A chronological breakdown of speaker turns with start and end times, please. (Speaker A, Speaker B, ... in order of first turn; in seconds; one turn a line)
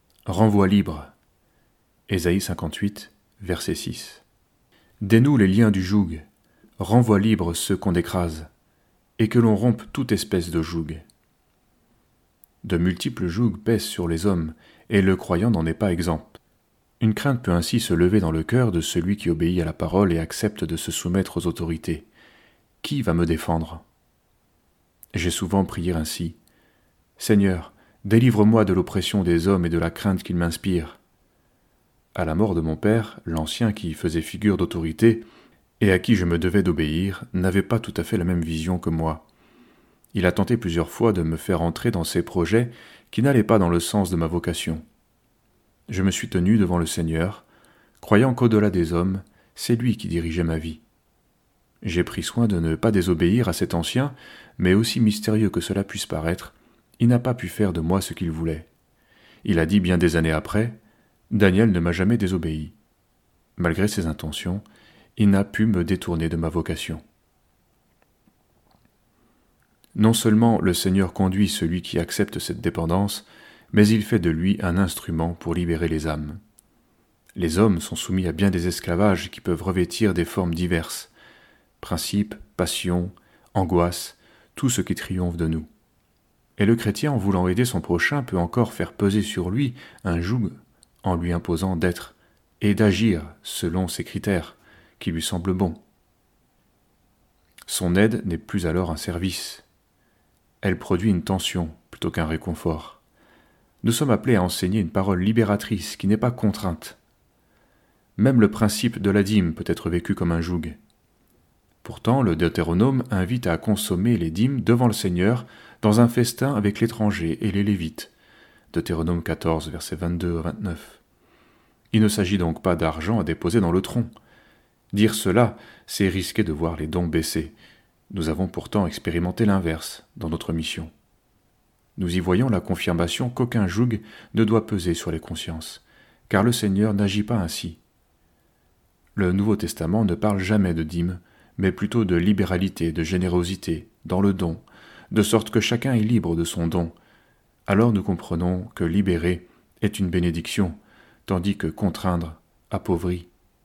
Speaker A: 0.2-1.1
Speaker A: 2.1-4.2
Speaker A: 5.0-6.2
Speaker A: 6.8-8.5
Speaker A: 9.2-11.0
Speaker A: 12.6-16.4
Speaker A: 17.0-22.1
Speaker A: 22.8-23.8
Speaker A: 25.1-26.4
Speaker A: 27.2-31.0
Speaker A: 32.1-35.3
Speaker A: 35.8-39.3
Speaker A: 40.1-44.8
Speaker A: 45.9-47.5
Speaker A: 48.0-50.8
Speaker A: 51.8-58.7
Speaker A: 59.4-60.8
Speaker A: 61.3-62.8
Speaker A: 63.6-64.6
Speaker A: 65.2-67.0
Speaker A: 69.9-76.4
Speaker A: 77.4-81.1
Speaker A: 81.8-85.7
Speaker A: 86.6-95.8
Speaker A: 97.7-99.7
Speaker A: 100.6-103.0
Speaker A: 103.8-107.0
Speaker A: 108.2-110.8
Speaker A: 111.8-118.1
Speaker A: 118.7-121.0
Speaker A: 121.9-124.1
Speaker A: 124.9-127.5
Speaker A: 128.1-130.9
Speaker A: 132.0-137.8
Speaker A: 139.2-146.9
Speaker A: 147.7-153.3